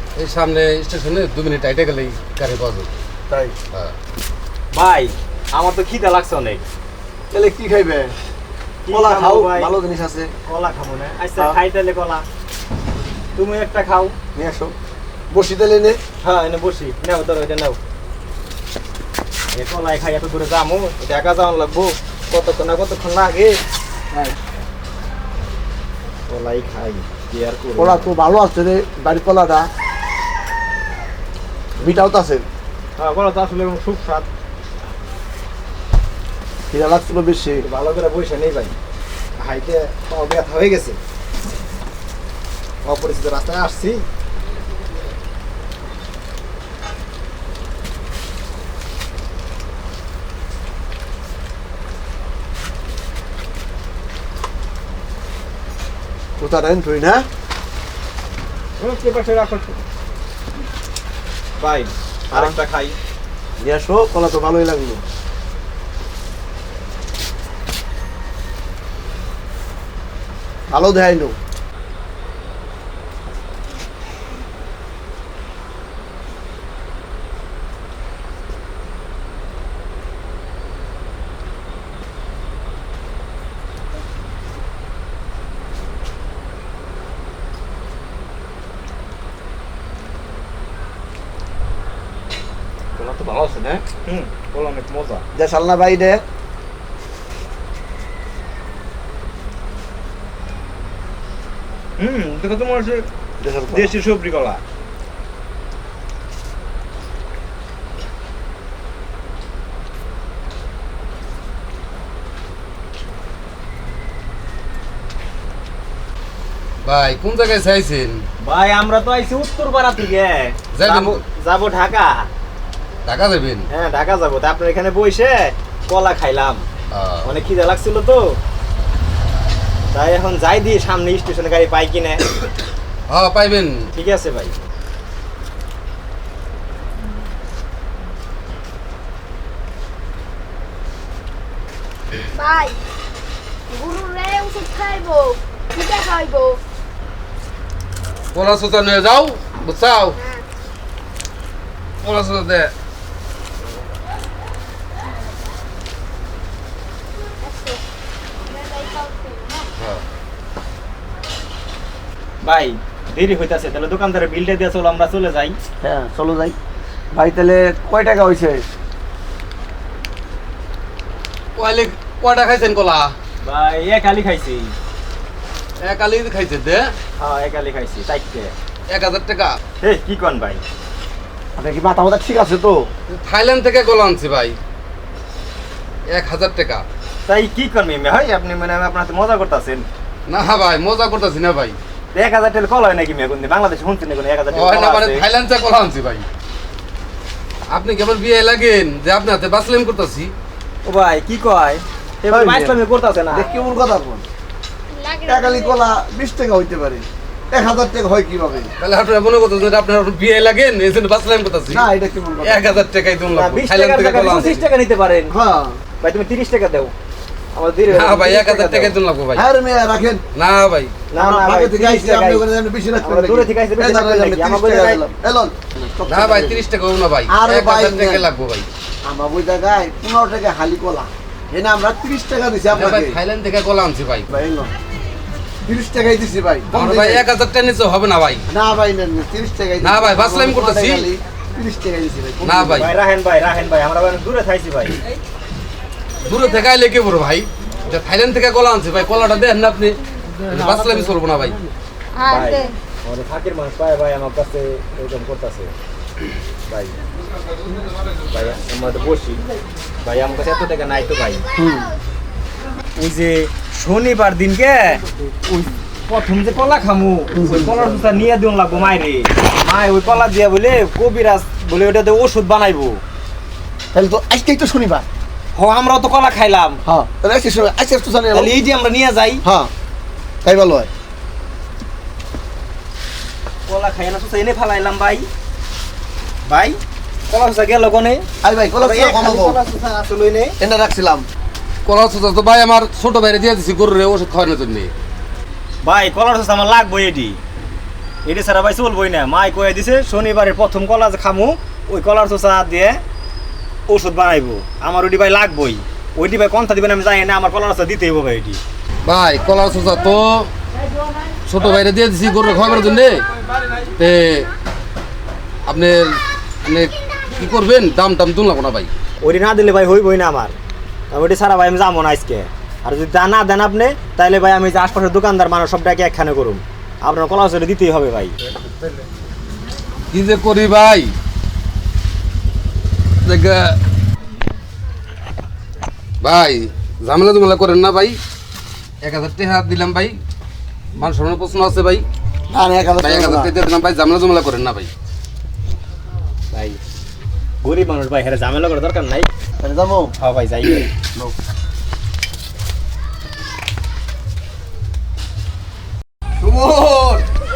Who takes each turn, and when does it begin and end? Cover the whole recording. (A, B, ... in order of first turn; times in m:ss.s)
0:00.2-0:02.9 A
0:03.3-0:03.5 B
0:04.7-0:06.6 C
0:07.3-0:08.1 B
0:08.8-0:09.7 C
0:08.9-0:10.3 B
0:10.5-0:12.2 C
0:13.4-0:14.1 C
0:14.4-0:14.7 B
0:15.3-0:16.0 B
0:16.2-0:17.8 C
0:19.5-0:23.6 C
0:26.3-0:28.1 C
0:27.8-0:29.7 B
0:31.8-0:32.4 B
0:33.0-0:34.3 C
0:36.7-0:37.6 B
0:37.6-0:38.8 C
0:39.4-0:41.0 C
0:42.8-0:44.0 C
0:56.4-0:57.3 B
0:58.8-0:59.8 C
1:01.6-1:03.0 C
1:03.6-1:05.0 B
1:10.7-1:11.4 B
1:33.0-1:35.2 C
1:35.4-1:36.2 B
1:42.0-1:43.1 C
1:43.4-1:44.0 B
1:43.7-1:44.6 C
1:56.8-1:58.2 A
1:58.4-2:02.3 C
2:00.7-2:01.2 A
2:03.1-2:03.7 A
2:03.7-2:06.6 C
2:06.9-2:07.3 A
2:07.2-2:08.4 C
2:09.9-2:12.2 C
2:13.1-2:13.7 A
2:13.9-2:14.6 C
2:22.3-2:22.8 D
2:23.7-2:26.6 D
2:28.3-2:30.2 A
2:30.2-2:30.5 D
2:32.0-2:32.7 A
2:37.4-2:37.8 D
2:38.4-2:39.7 D
2:42.4-2:45.6 C
2:45.8-2:46.6 B
2:47.1-2:48.6 B
2:51.6-2:53.1 A
2:53.4-2:54.7 C
2:55.8-2:56.9 A
2:57.2-2:58.5 C
2:58.9-2:59.6 A
2:59.8-3:00.6 C
3:01.6-3:02.9 B
3:03.1-3:04.6 A
3:06.1-3:06.8 A
3:07.3-3:09.9 C
3:10.3-3:11.8 A
3:12.1-3:15.2 C
3:14.5-3:16.2 A
3:17.7-3:20.3 A
3:20.8-3:23.5 C
3:22.3-3:24.2 B
3:24.9-3:25.8 D
3:25.3-3:28.7 B
3:28.8-3:31.9 A
3:31.7-3:32.7 B
3:32.4-3:34.6 A
3:33.3-3:35.3 C
3:35.3-3:35.8 B
3:36.0-3:36.9 C
3:37.5-3:39.0 C
3:37.9-3:39.4 A
3:39.4-3:40.2 B
3:40.4-3:40.9 A
3:41.1-3:42.4 C
3:41.2-3:46.6 B
3:43.0-3:45.0 C
3:46.1-3:48.7 A
3:47.3-3:48.3 B
3:49.0-3:53.2 B
3:52.7-3:54.3 A
3:54.3-3:54.7 B
3:55.6-3:57.3 B
3:56.7-3:58.4 A
3:58.5-4:02.9 B
3:59.8-4:01.1 A
4:02.4-4:02.9 A
4:02.8-4:05.0 C
4:06.2-4:11.6 A
4:10.5-4:11.1 C
4:12.2-4:12.7 D
4:12.2-4:15.7 C
4:16.7-4:17.0 C
4:18.3-4:19.4 C
4:20.0-4:21.4 C
4:21.6-4:21.9 B
4:23.0-4:33.0 C
4:27.3-4:27.8 B
4:33.9-4:35.0 B
4:35.6-4:36.8 C
4:36.8-4:38.5 B
4:38.3-4:39.4 C
4:39.4-4:39.7 B
4:40.4-4:40.9 B
4:43.7-4:45.3 C
4:46.4-4:48.3 C
4:48.4-4:49.6 B
4:48.8-4:50.6 C
4:50.6-4:51.3 B
4:51.8-4:54.9 A
4:55.8-4:57.4 C
4:58.2-5:03.0 C
5:03.9-5:08.6 C
5:09.0-5:10.5 A
5:11.5-5:13.2 A
5:14.0-5:14.5 A
5:15.7-5:18.9 A
5:19.2-5:20.6 C
5:21.1-5:28.4 C
5:30.1-5:31.1 A
5:33.2-5:33.8 A
5:36.2-5:38.2 A
5:39.0-5:40.2 A
5:41.0-5:42.0 A
5:42.5-5:43.5 B
5:42.8-5:44.9 A
5:46.5-5:46.8 C
5:47.6-5:49.3 C
5:49.6-5:50.1 B
5:50.2-5:50.9 C
5:56.4-5:57.2 B